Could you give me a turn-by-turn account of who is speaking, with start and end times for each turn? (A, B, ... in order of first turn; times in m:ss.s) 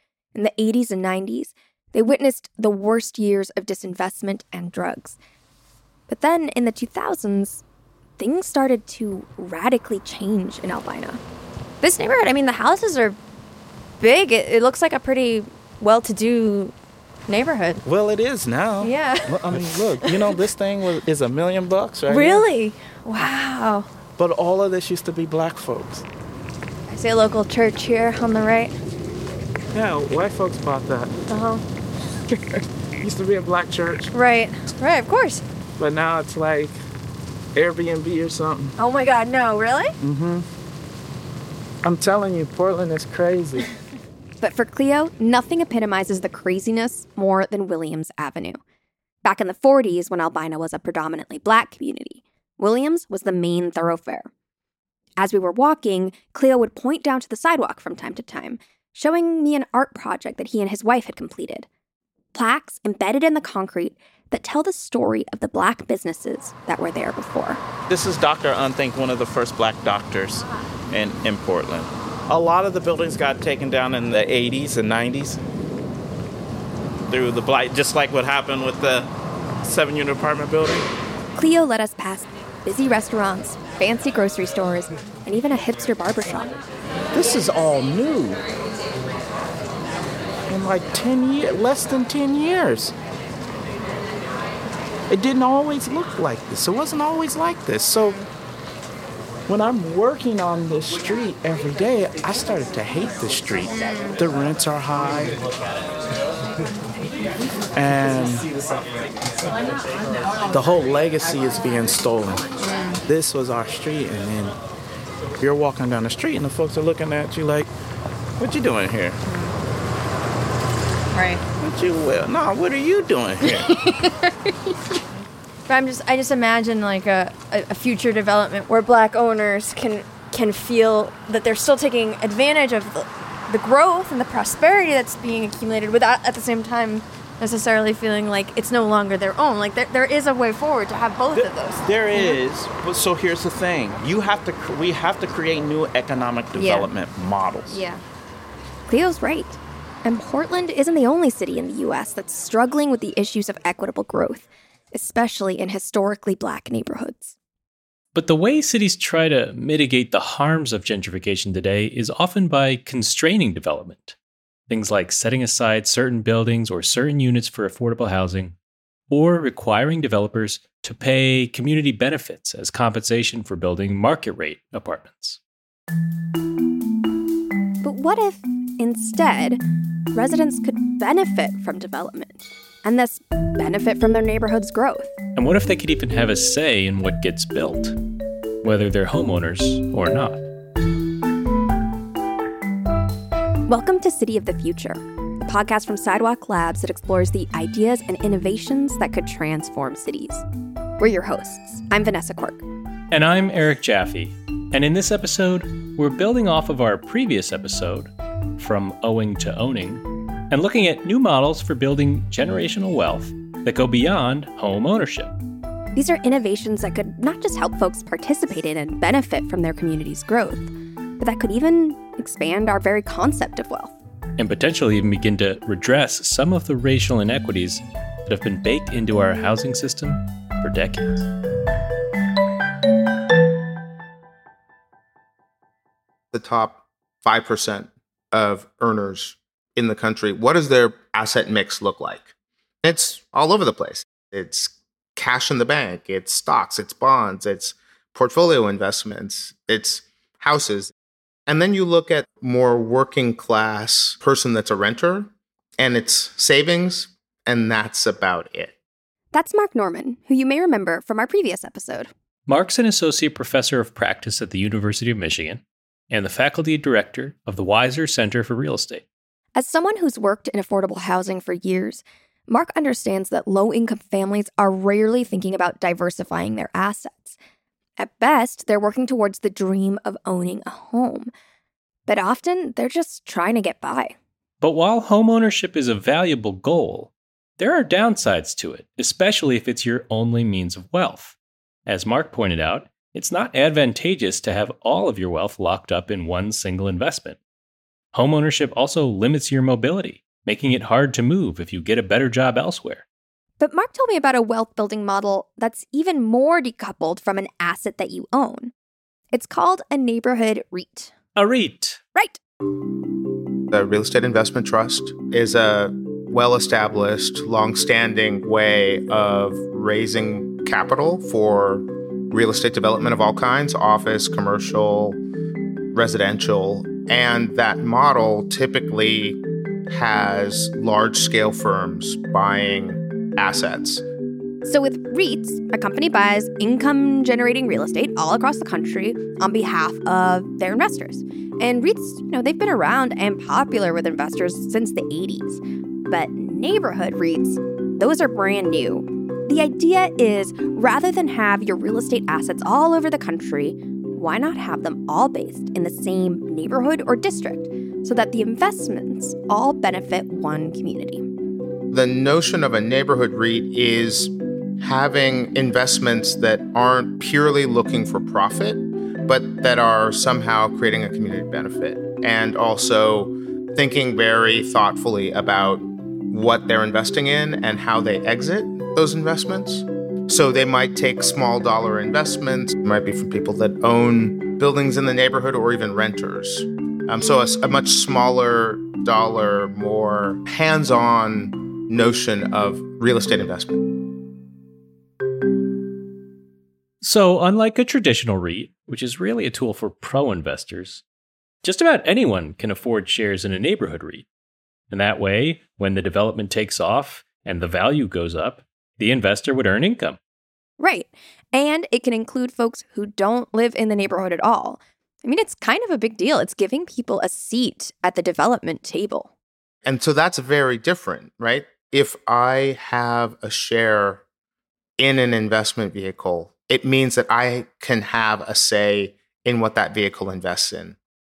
0:00.3-0:05.2 A
0:06.1-0:07.6 A
0:08.2-0:11.2 A
0:11.8-0:12.5 A
0:12.2-0:13.2 B
0:14.1-0:15.4 B
0:15.8-0:16.1 A
0:16.0-0:16.7 B
0:17.3-0:17.8 B
0:17.8-0:22.5 C
0:18.8-0:19.3 B
0:22.1-0:23.0 B
0:24.2-0:26.0 C
0:26.9-0:28.7 B
0:29.7-0:31.2 C
0:31.3-0:31.6 B
0:32.3-0:34.1 C
0:34.1-0:35.4 B
0:35.8-0:36.8 C
0:37.5-0:38.7 C
0:38.8-0:39.9 B
0:40.0-0:40.5 C
0:41.8-0:43.7 C
0:44.4-0:48.6 A
0:49.2-0:54.3 A
0:55.2-1:01.7 A
1:02.3-1:07.6 A
1:07.9-1:15.4 C
1:17.1-1:19.1 C
1:19.6-1:20.8 C
1:21.3-1:26.5 A
1:27.1-1:28.4 C
1:30.5-1:32.9 C
1:35.1-1:38.2 C
1:39.5-1:45.4 C
1:43.8-1:44.1 B
1:47.7-1:48.5 C
1:50.5-1:54.6 C
1:52.7-1:53.0 B
1:55.4-1:57.7 C
1:58.4-1:59.2 C
1:59.3-1:59.5 B
2:01.1-2:01.4 B
2:01.6-2:03.7 C
2:05.7-2:21.8 B
2:21.3-2:27.8 C
2:27.7-2:28.0 B
2:28.9-2:37.3 A
2:38.1-2:44.1 D
2:44.7-2:48.5 D
2:49.1-2:55.4 D
2:57.8-2:59.6 A
3:00.1-3:05.1 A
3:05.4-3:07.9 D
3:08.6-3:10.4 D
3:13.7-3:20.4 A
3:21.0-3:22.6 A
3:23.1-3:35.3 D
3:35.9-3:43.9 A
3:44.4-3:51.2 D
3:56.3-4:02.3 E
4:02.8-4:10.9 E
4:11.5-4:18.7 E
4:19.3-4:22.1 A
4:22.5-4:29.0 D
4:29.5-4:37.4 A
4:38.0-4:41.3 A
4:42.1-4:44.1 A
4:44.6-4:57.4 D
4:58.1-5:03.0 D
5:03.6-5:08.7 A
5:09.3-5:11.1 A
5:11.4-5:12.0 D
5:13.7-5:25.2 E
5:25.9-5:34.0 E
5:34.6-6:01.2 A
6:01.9-6:33.8 E
6:37.0-6:41.0 D
6:41.6-6:44.2 D
6:44.9-6:50.2 D
6:50.8-6:59.3 A
6:59.8-7:04.2 E
7:05.0-7:11.0 E